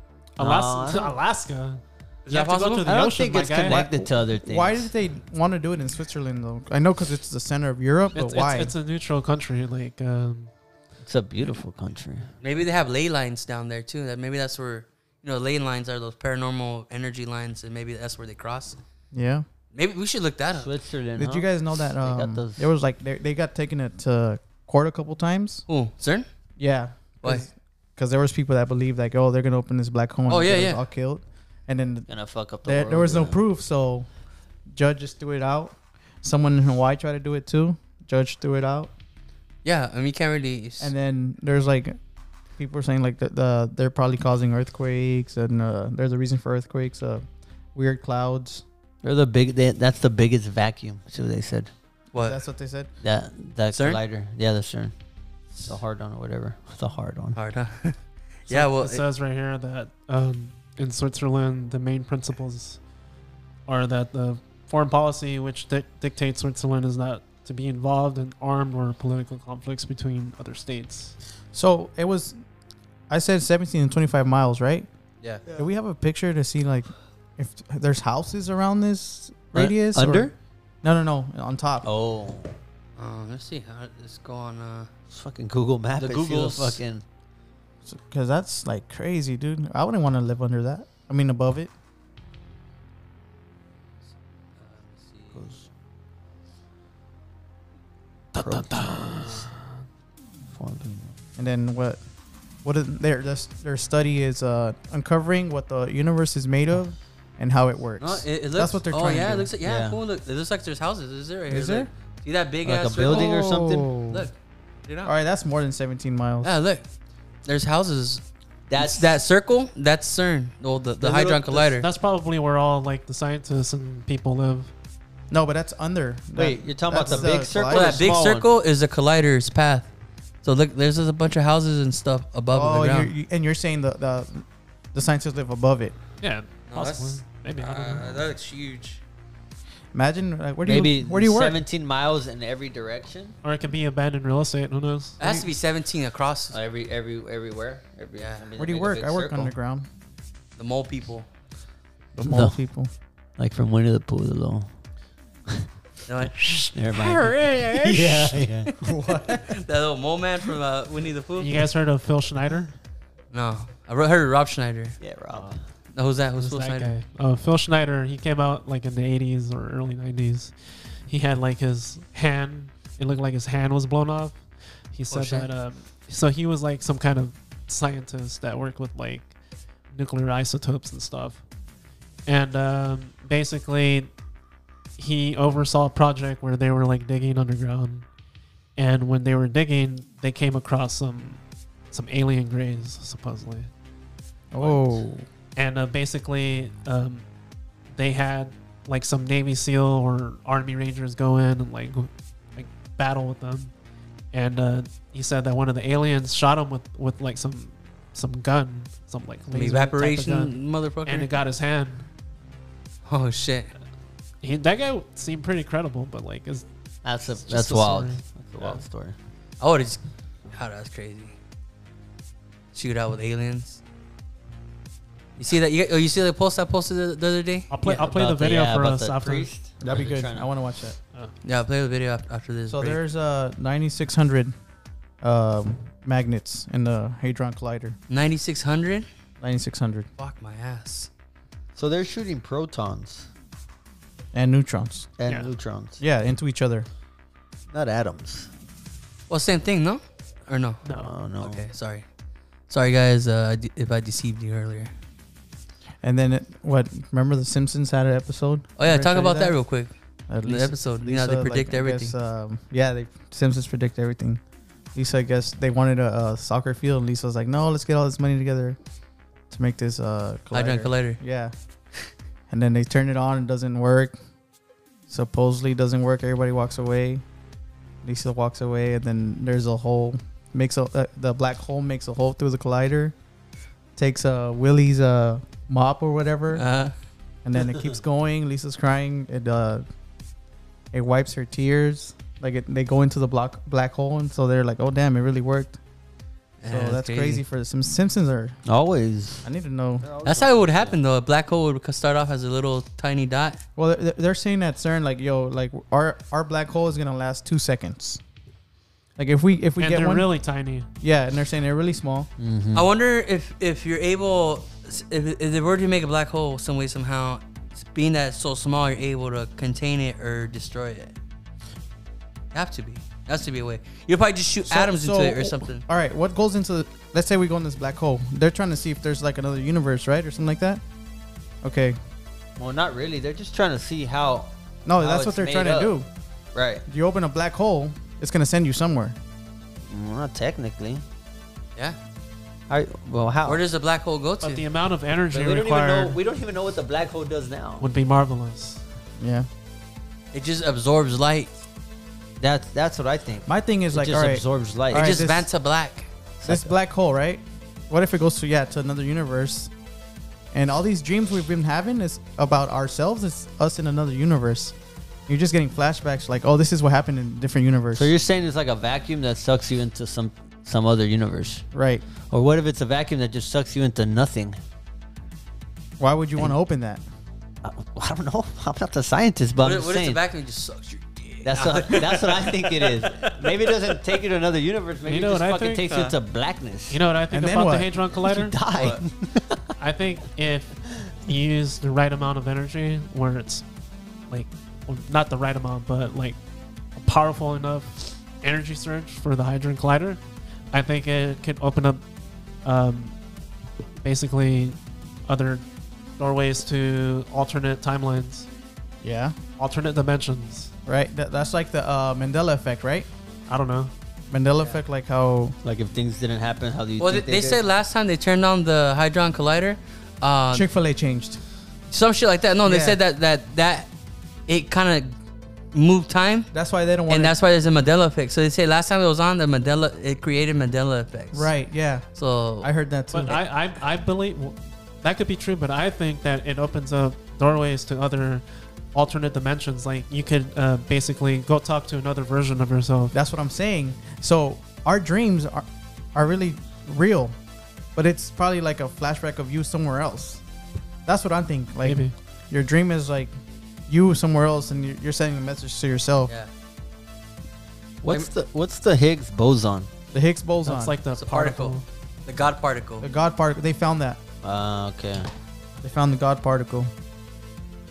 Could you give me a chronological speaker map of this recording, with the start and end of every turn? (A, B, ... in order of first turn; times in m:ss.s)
0:00.4-0:03.8 A
0:00.4-0:01.1 B
0:02.2-0:02.9 C
0:02.8-0:04.9 B
0:03.7-0:08.7 D
0:08.1-0:10.5 A
0:11.0-0:12.3 B
0:12.4-0:18.8 C
0:19.1-0:19.4 D
0:19.7-0:20.7 C
0:20.5-0:21.5 B
0:21.2-0:25.6 D
0:22.0-0:22.7 B
0:25.7-0:26.3 C
0:26.6-0:32.1 D
0:30.3-0:30.8 C
0:32.1-0:33.4 B
0:32.6-0:34.1 D
0:34.7-0:38.9 D
0:39.6-0:40.9 C
0:40.8-0:42.0 D
0:42.6-0:48.6 D
0:49.0-0:51.7 B
0:52.1-0:52.4 C
0:52.2-0:52.9 D
0:53.0-0:54.9 B
0:53.7-0:54.0 C
0:55.6-0:57.4 B
0:57.4-0:58.0 C
0:58.5-0:59.0 C
0:58.5-1:02.8 A
1:03.7-1:11.2 A
1:11.5-1:12.4 D
1:13.1-1:14.9 D
1:15.5-1:21.9 D
1:19.5-1:20.3 B
1:21.8-1:22.5 B
1:23.0-1:24.9 C
1:25.1-1:27.0 B
1:26.0-1:26.8 C
1:27.8-1:31.7 D
1:34.6-1:35.4 C
1:38.3-1:39.5 A
1:38.3-1:39.5 B
1:40.5-1:41.1 B
1:41.4-1:42.0 D
1:42.6-1:49.5 D
1:48.0-1:54.3 C
1:49.6-1:50.0 B
1:51.5-1:51.9 D
1:52.6-1:54.0 B
1:53.0-1:54.3 D
1:54.9-1:55.1 C
1:55.0-1:56.5 D
1:56.4-1:56.8 C
1:57.4-1:58.2 C
1:58.7-1:59.2 B
1:58.8-2:01.9 C
2:01.0-2:01.8 B
2:01.8-2:04.7 A
2:05.3-2:08.1 D
2:06.3-2:08.5 B
2:07.7-2:09.9 C
2:10.4-2:13.1 C
2:12.5-2:15.9 D
2:16.2-2:18.2 A
2:16.7-2:19.0 C
2:19.9-2:21.6 D
2:20.6-2:23.4 B
2:23.4-2:25.2 A
2:25.2-2:25.5 D
2:25.2-2:26.6 C
2:26.5-2:29.5 B
2:28.2-2:28.4 C
2:28.6-2:29.9 D
2:30.6-2:31.3 C
2:32.2-2:32.9 D
2:32.2-2:32.6 B
2:33.4-2:34.7 B
2:36.1-2:36.7 C
2:36.7-2:38.7 B
2:36.9-2:38.4 A
2:38.8-2:39.6 D
2:39.3-2:41.6 C
2:41.4-2:42.7 A
2:43.3-2:45.0 C
2:45.0-2:45.6 B
2:45.9-2:46.9 C
2:46.4-2:54.4 A
2:54.9-2:59.3 A
2:55.1-2:55.5 C
2:59.9-3:01.4 A
3:02.2-3:04.1 A
3:05.0-3:08.1 A
3:08.8-3:11.4 A
3:11.9-3:13.7 A
3:14.5-3:15.2 D
3:14.6-3:14.9 A
3:15.6-3:17.2 A
3:17.9-3:23.7 A
3:24.3-3:32.0 A
3:29.5-3:31.3 C
3:33.0-3:33.7 C
3:34.4-3:36.6 A
3:37.0-3:39.2 B
3:37.3-3:38.8 A
3:39.6-3:40.0 C
3:40.5-3:41.3 C
3:42.7-3:43.8 C
3:45.4-3:48.0 C
3:47.7-3:49.5 A
3:48.0-3:50.5 B
3:49.8-3:51.0 D
3:51.4-3:53.0 C
3:52.7-3:54.5 D
3:55.2-3:58.0 D
3:58.1-3:59.1 C
3:59.4-4:00.1 D
4:00.2-4:01.1 C
4:01.8-4:03.3 B
4:04.3-4:05.1 D
4:05.2-4:06.0 B
4:06.0-4:06.9 D
4:07.7-4:08.5 B
4:09.3-4:10.8 C
4:10.8-4:11.1 A
4:10.9-4:11.7 B
4:11.4-4:12.0 C
4:12.7-4:14.9 C
4:16.0-4:19.6 D
4:18.8-4:19.9 C
4:20.3-4:24.4 D
4:20.4-4:22.1 C
4:24.9-4:28.8 D
4:29.5-4:31.5 D
4:30.5-4:31.2 C
4:32.5-4:34.2 D
4:35.1-4:37.2 D
4:38.0-4:43.1 D
4:44.0-4:46.6 D
4:46.5-4:46.9 C
4:47.4-4:49.8 D
4:50.9-4:55.8 D
4:56.6-4:57.4 C
4:56.6-4:58.6 D
4:58.6-4:59.4 B
4:59.4-5:00.1 D
5:00.0-5:01.0 B
5:00.2-5:03.6 C
5:03.8-5:08.2 D
5:09.2-5:10.3 D
5:09.8-5:10.9 A
5:11.0-5:12.3 D
5:12.4-5:12.9 B
5:12.7-5:21.1 C
5:22.5-5:25.8 C
5:24.7-5:30.8 D
5:31.6-5:32.0 D
5:32.6-5:36.0 B
5:34.8-5:36.1 D
5:36.5-5:36.8 B
5:36.9-5:39.2 D
5:39.9-5:41.0 B
5:42.7-5:43.6 B
5:43.4-5:44.6 C
5:44.4-5:46.2 A
5:45.3-5:47.8 B
5:47.8-5:48.8 A
5:49.2-5:49.5 D
5:50.3-5:51.5 C
5:52.4-5:55.2 B
5:53.5-5:55.5 D
5:54.9-5:56.1 C
5:56.4-5:56.7 B
5:56.5-5:59.7 D
6:00.5-6:04.7 D
6:05.3-6:08.1 D
6:07.9-6:11.6 B
6:11.7-6:12.0 D
6:12.3-6:14.6 B
6:16.0-6:17.0 D
6:17.6-6:20.2 B
6:19.6-6:24.0 C
6:21.4-6:27.0 B
6:25.0-6:25.9 A
6:25.9-6:26.1 C
6:26.9-6:28.6 A
6:27.3-6:27.9 D
6:28.2-6:29.7 B
6:29.8-6:33.6 A
6:34.3-6:36.4 A
6:37.0-6:40.2 A
6:40.7-6:42.0 A
6:42.6-6:43.2 A
6:44.0-6:45.6 A
6:46.2-6:48.5 A
6:49.0-6:49.4 D
6:49.6-6:50.7 A
6:50.8-6:53.1 D
6:53.5-6:53.9 A
6:54.3-6:55.6 D
6:55.6-6:57.6 B
6:57.0-7:00.7 C
7:00.5-7:01.4 D
7:01.9-7:03.9 C
7:02.6-7:03.0 D
7:04.5-7:05.1 C
7:05.7-7:06.5 C
7:06.5-7:07.3 D
7:07.1-7:11.5 C
7:11.3-7:12.0 D
7:12.2-7:12.7 C
7:12.6-7:13.4 D
7:13.1-7:23.1 A
7:23.1-7:27.4 D
7:27.9-7:30.4 D
7:31.0-7:33.3 D
7:31.8-7:32.1 A
7:33.9-7:36.3 D
7:38.0-7:39.9 B
7:40.1-7:41.0 D
7:40.6-7:41.8 A
7:41.2-7:43.0 C
7:43.0-7:44.2 D
7:44.4-7:45.3 B
7:45.8-7:46.9 D